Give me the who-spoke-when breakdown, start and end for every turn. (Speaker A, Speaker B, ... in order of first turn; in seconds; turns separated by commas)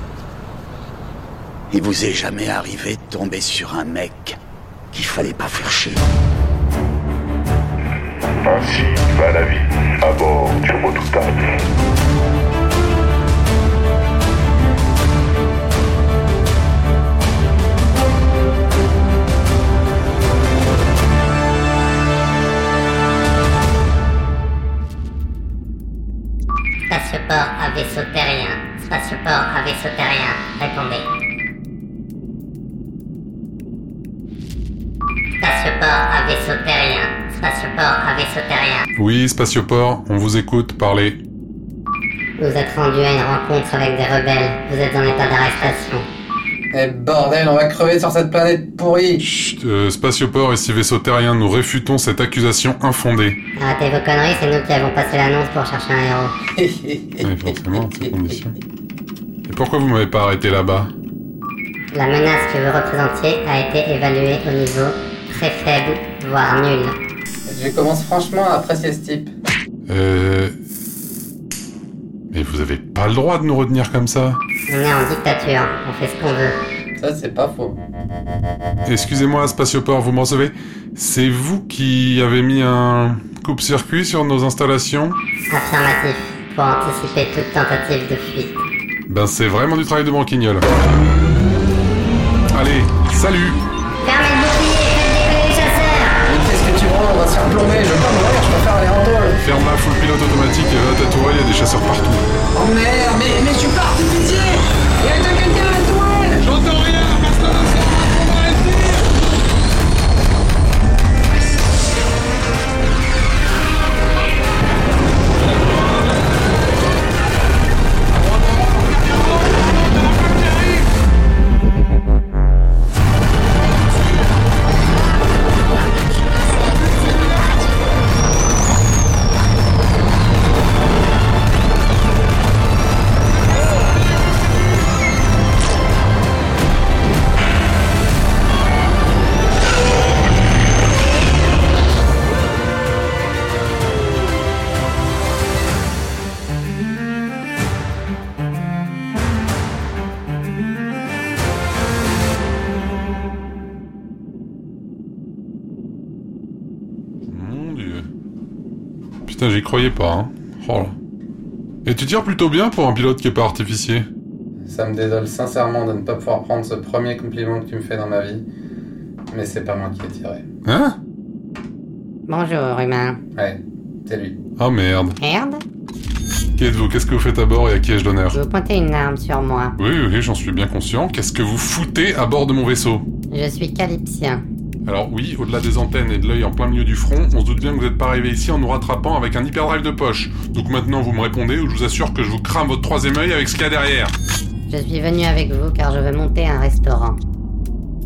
Speaker A: 1.7-4.4, Speaker A: 4.9-6.0, Speaker B: 8.4-11.6, Speaker C: 26.9-31.1, Speaker C: 35.4-38.9, Speaker D: 39.0-41.2, Speaker C: 42.4-46.1, Speaker E: 46.7-49.3, Speaker D: 49.2-53.4, Speaker C: 53.6-56.3, Speaker E: 56.6-58.3, Speaker D: 57.2-58.5, Speaker D: 59.5-60.9, Speaker C: 61.9-67.0, Speaker E: 67.5-69.3, Speaker D: 69.9-70.6, Speaker D: 72.3-74.4, Speaker C: 74.7-76.6, Speaker E: 77.0-77.8, Speaker D: 78.8-85.2, Speaker C: 85.5-88.6, Speaker D: 89.1-90.7, Speaker D: 92.5-93.6, Speaker C: 94.0-96.2, Speaker E: 96.2-99.4, Speaker D: 99.4-102.3, Speaker E: 102.6-105.9, Speaker D: 106.5-107.7, Speaker D: 118.5-119.0, Speaker D: 157.3-158.1, Speaker D: 159.3-161.0, Speaker D: 161.8-164.1, Speaker E: 164.7-168.4, Speaker E: 169.3-170.4, Speaker D: 170.7-171.0, Speaker C: 172.3-173.2, Speaker E: 173.3-174.4, Speaker D: 174.6-175.2, Speaker C: 175.2-175.6, Speaker D: 176.6-178.4, Speaker C: 178.3-179.8, Speaker D: 179.8-183.1, Speaker C: 183.3-184.4, Speaker D: 184.9-194.1, Speaker C: 194.7-197.2